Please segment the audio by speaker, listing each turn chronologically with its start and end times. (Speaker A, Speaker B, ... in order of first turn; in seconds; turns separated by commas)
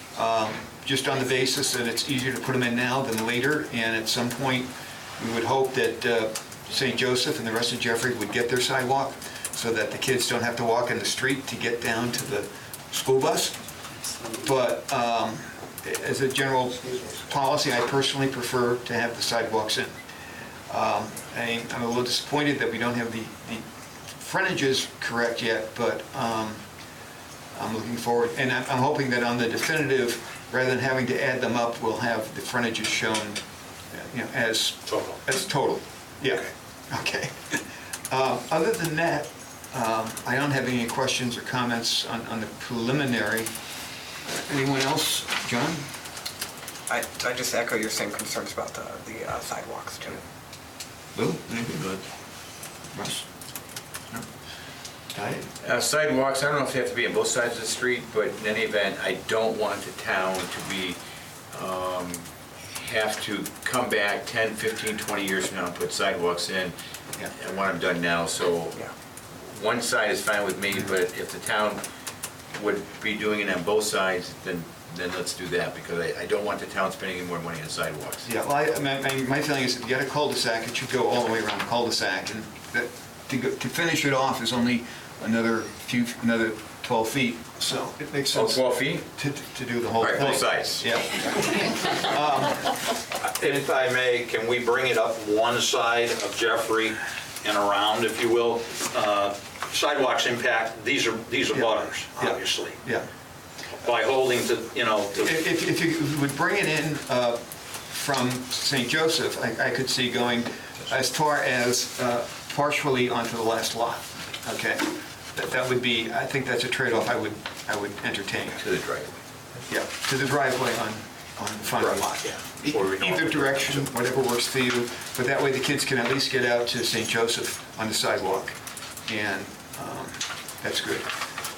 Speaker A: 0.1-13.6, Speaker A: 14.4-19.9, Speaker A: 20.7-23.6, Speaker A: 24.2-26.6, Speaker A: 27.5-43.5, Speaker B: 34.9-35.2, Speaker A: 44.2-45.9, Speaker C: 46.9-50.2, Speaker A: 51.1-51.9, Speaker D: 51.6-52.0, Speaker A: 52.9-53.2, Speaker A: 55.1-55.5, Speaker D: 55.6-61.0, Speaker D: 61.5-66.8, Speaker D: 67.3-68.9, Speaker D: 69.5-71.8, Speaker D: 72.5-78.3, Speaker A: 78.2-92.8, Speaker D: 88.3-89.1, Speaker D: 90.0-90.8, Speaker B: 93.2-102.8, Speaker A: 101.5-103.1, Speaker B: 103.8-105.4, Speaker A: 105.2-118.6, Speaker D: 118.6-119.2, Speaker A: 119.7-128.6, Speaker B: 121.8-123.9, Speaker A: 129.1-131.1